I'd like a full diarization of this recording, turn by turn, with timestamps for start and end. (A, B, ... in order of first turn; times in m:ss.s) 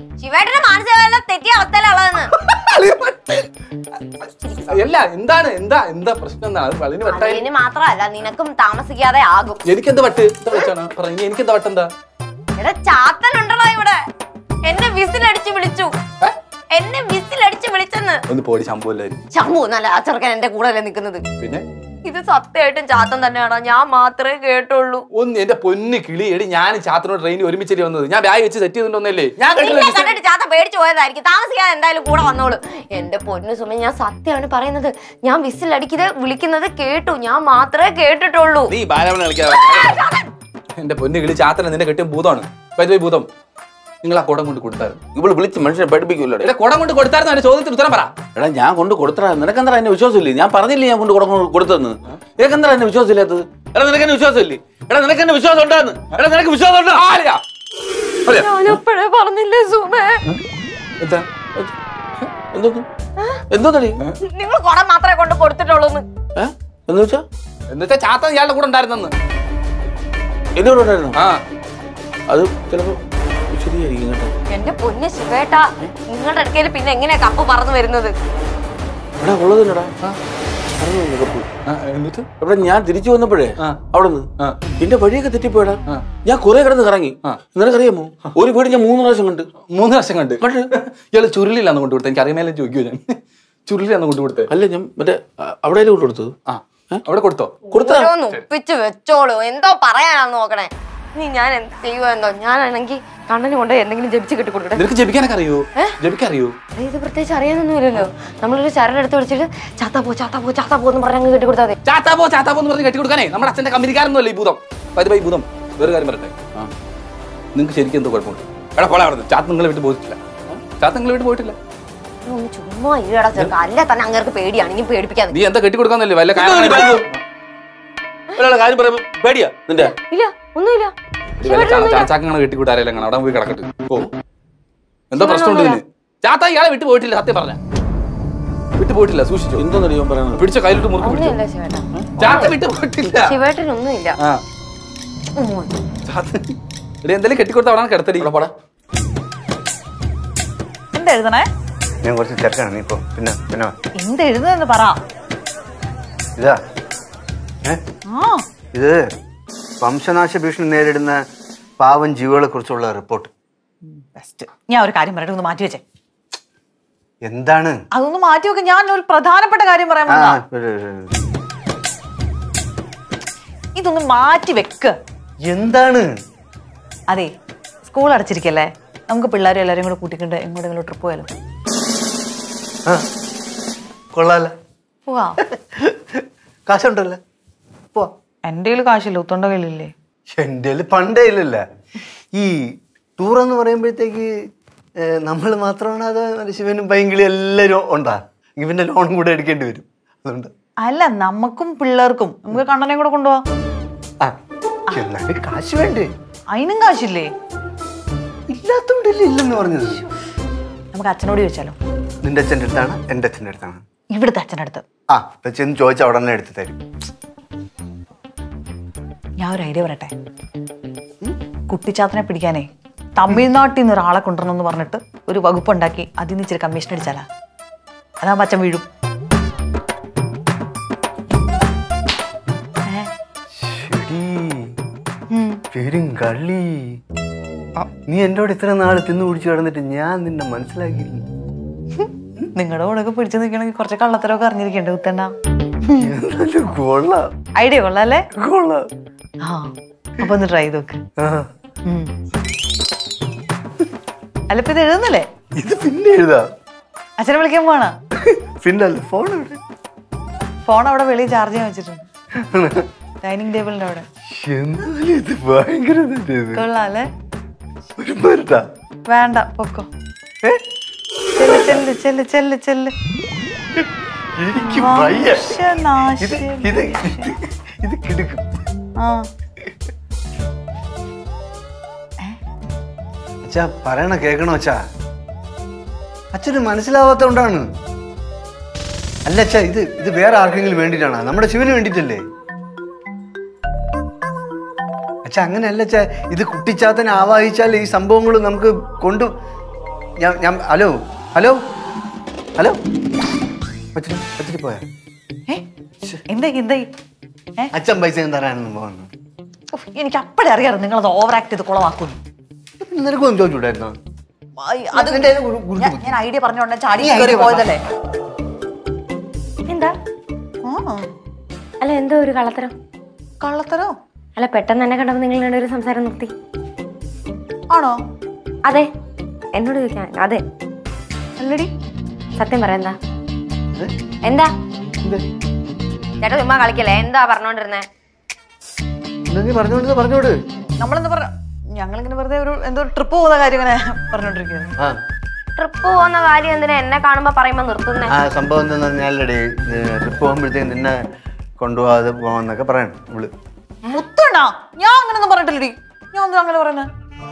0:00.2-0:02.3 A
0:02.3-0:07.4 B
0:04.4-0:04.8 A
0:07.1-0:09.6 A
0:09.6-0:11.9 B
0:12.6-0:14.0 A
0:14.6-0:15.9 A
0:16.7-0:18.2 A
0:18.3-0:19.2 B
0:19.3-0:21.2 A
0:22.0-0:25.0 A
0:25.1-0:30.2 B
0:29.4-0:38.7 A
0:38.7-0:40.1 C
0:39.5-0:40.3 A
0:40.8-0:43.3 B
0:44.0-0:45.0 B
0:45.2-0:46.5 C
0:46.4-0:48.2 B
0:48.4-0:57.1 C
0:57.0-0:57.4 B
0:58.3-0:58.8 C
0:58.3-1:00.2 A
1:01.0-1:01.3 B
1:02.5-1:02.8 C
1:03.5-1:04.0 C
1:04.3-1:06.0 A
1:06.4-1:07.2 C
1:07.7-1:09.1 B
1:10.6-1:11.2 C
1:11.2-1:11.4 B
1:12.3-1:13.0 C
1:13.5-1:14.3 C
1:14.5-1:18.1 A
1:19.2-1:19.9 C
1:20.8-1:21.5 C
1:21.7-1:22.3 B
1:22.4-1:24.2 C
1:24.8-1:29.5 C
1:29.7-1:34.5 B
1:30.4-1:30.7 C
1:34.5-1:36.3 C
1:36.5-1:37.5 B
1:37.7-1:38.2 C
1:37.7-1:44.9 A
1:44.8-1:46.6 B
1:46.8-1:51.8 A
1:51.8-1:56.4 B
1:57.5-2:01.6 B
2:02.3-2:05.4 A
2:05.3-2:07.2 B
2:06.4-2:07.1 C
2:08.4-2:10.0 C
2:10.1-2:10.9 A
2:11.4-2:14.1 B
2:11.4-2:12.1 A
2:15.1-2:17.6 B
2:15.2-2:15.8 A
2:18.8-2:19.7 B
2:19.6-2:20.4 C
2:20.4-2:21.4 B
2:21.0-2:22.6 A
2:21.9-2:22.3 C
2:22.2-2:23.4 B
2:23.2-2:24.2 A
2:25.4-2:25.7 A
2:26.1-2:28.3 B
2:28.2-2:28.5 C
2:30.9-2:31.5 D
2:32.0-2:33.7 E
2:34.0-2:35.0 D
2:38.1-2:38.4 D
2:38.7-2:39.1 E
2:39.8-2:41.2 E
2:41.8-2:43.3 E
2:43.9-2:45.8 D
2:47.2-2:47.8 E
2:47.9-2:50.4 D
2:50.1-2:51.1 E
2:53.8-2:54.9 D
2:55.5-2:56.1 E
2:57.8-3:01.3 D
3:04.1-3:04.5 E
3:05.1-3:05.4 D
3:05.5-3:07.2 E
3:08.5-3:09.9 D
3:10.3-3:11.6 E
3:13.2-3:14.3 E
3:15.0-3:20.5 E
3:20.8-3:23.4 D
3:24.9-3:26.1 E
3:26.5-3:27.3 D
3:28.5-3:30.0 E
3:30.9-3:31.8 D
3:32.2-3:33.8 E
3:34.1-3:34.9 D
3:35.1-3:36.8 E
3:39.4-3:40.1 D
3:41.7-3:47.2 D
3:48.2-3:48.9 D
3:53.6-3:54.8 E
3:55.3-3:55.6 D
3:55.7-3:57.0 E
3:58.1-4:01.2 E
4:02.5-4:05.3 D
4:06.0-4:07.2 E
4:07.6-4:08.3 D
4:08.4-4:08.9 E
4:09.4-4:11.0 D
4:11.2-4:11.5 E
4:11.9-4:12.1 D
4:14.5-4:15.3 D
4:15.6-4:16.5 E
4:17.2-4:18.0 D
4:18.1-4:19.6 E
4:20.6-4:22.0 D
4:22.4-4:22.9 E
4:23.2-4:24.0 D
4:24.3-4:26.7 E
4:26.6-4:27.1 D
4:28.0-4:28.6 E
4:29.1-4:29.9 D
4:31.4-4:32.9 D
4:34.4-4:35.6 E
4:34.6-4:37.3 D
4:36.2-4:38.4 E
4:43.4-4:44.8 E
4:46.3-4:47.6 E
4:49.3-4:52.2 E
4:55.3-4:59.3 E
5:00.2-5:01.6 E
5:04.0-5:04.8 E
5:06.3-5:06.9 D
5:07.7-5:09.1 E
5:09.7-5:12.2 D
5:12.8-5:14.0 E
5:14.6-5:17.8 D
5:14.9-5:16.2 E
5:17.0-5:17.8 E
5:19.7-5:20.0 A
5:20.7-5:21.1 D
5:21.8-5:22.7 A
5:23.4-5:23.9 D
5:24.4-5:26.3 A
5:29.6-5:30.4 A
5:31.4-5:31.7 D
5:32.4-5:33.0 A
5:34.2-5:34.5 A
5:36.2-5:37.9 A
5:39.3-5:40.4 E
5:40.8-5:44.7 D
5:45.6-5:48.1 A
5:48.1-5:51.0 E
5:51.6-5:53.3 E
5:53.9-5:56.9 D